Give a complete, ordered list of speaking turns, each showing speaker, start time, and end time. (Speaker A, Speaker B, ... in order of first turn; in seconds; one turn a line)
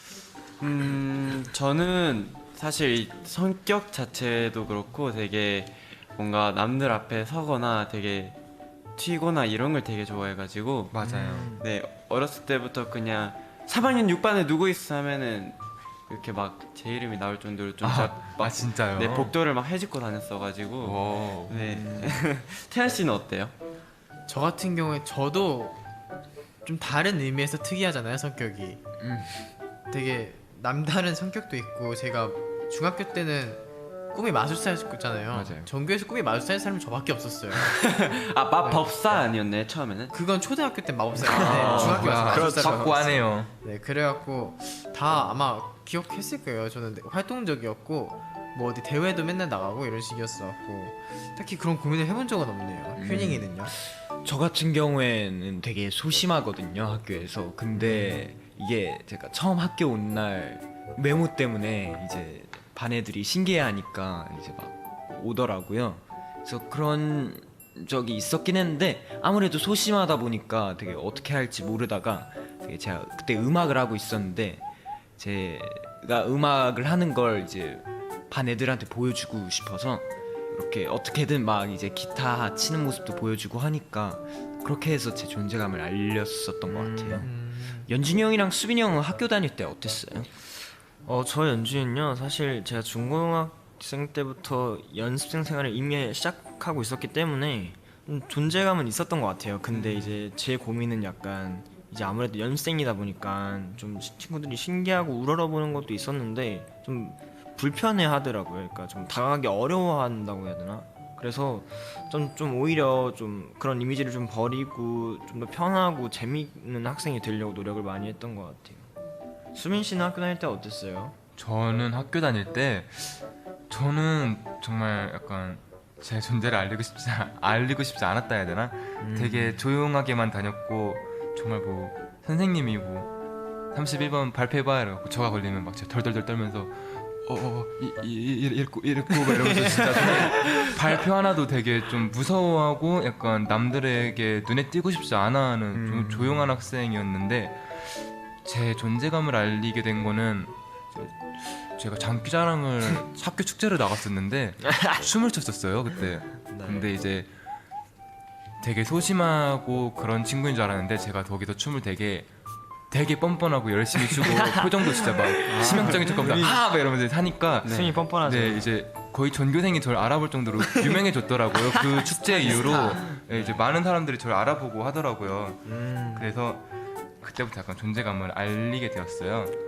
Speaker A: 0.6-8.4
Speaker A: 9.0-10.9
Speaker B: 10.9-11.5
Speaker C: 11.0-11.5
Speaker A: 11.6-15.6
Speaker A: 16.1-23.5
Speaker B: 17.8-19.3
Speaker B: 20.8-21.6
Speaker C: 21.8-22.1
Speaker D: 24.3-25.8
Speaker D: 26.6-28.8
Speaker C: 29.0-29.5
Speaker D: 29.9-37.8
Speaker B: 35.3-35.7
Speaker A: 37.5-40.2
Speaker D: 40.1-53.7
Speaker A: 41.2-42.4
Speaker C: 41.2-42.7
Speaker B: 41.3-43.5
Speaker C: 53.0-74.6
Speaker C: 75.2-87.3
Speaker E: 86.7-87.2
Speaker D: 87.2-87.9
Speaker C: 87.8-90.4
Speaker E: 91.0-118.9
Speaker E: 119.5-121.2
Speaker B: 121.3-133.1
Speaker E: 129.0-129.5
Speaker B: 133.7-157.3
Speaker C: 145.7-146.5
Speaker E: 156.5-156.9
Speaker B: 158.6-162.3
Speaker B: 162.9-176.7
Speaker E: 164.1-166.6
Speaker C: 165.5-166.7
Speaker A: 165.6-165.9
Speaker A: 167.6-167.9
Speaker E: 167.6-168.7
Speaker E: 171.8-173.2
Speaker A: 173.3-173.6
Speaker E: 175.7-176.3
Speaker B: 177.2-179.6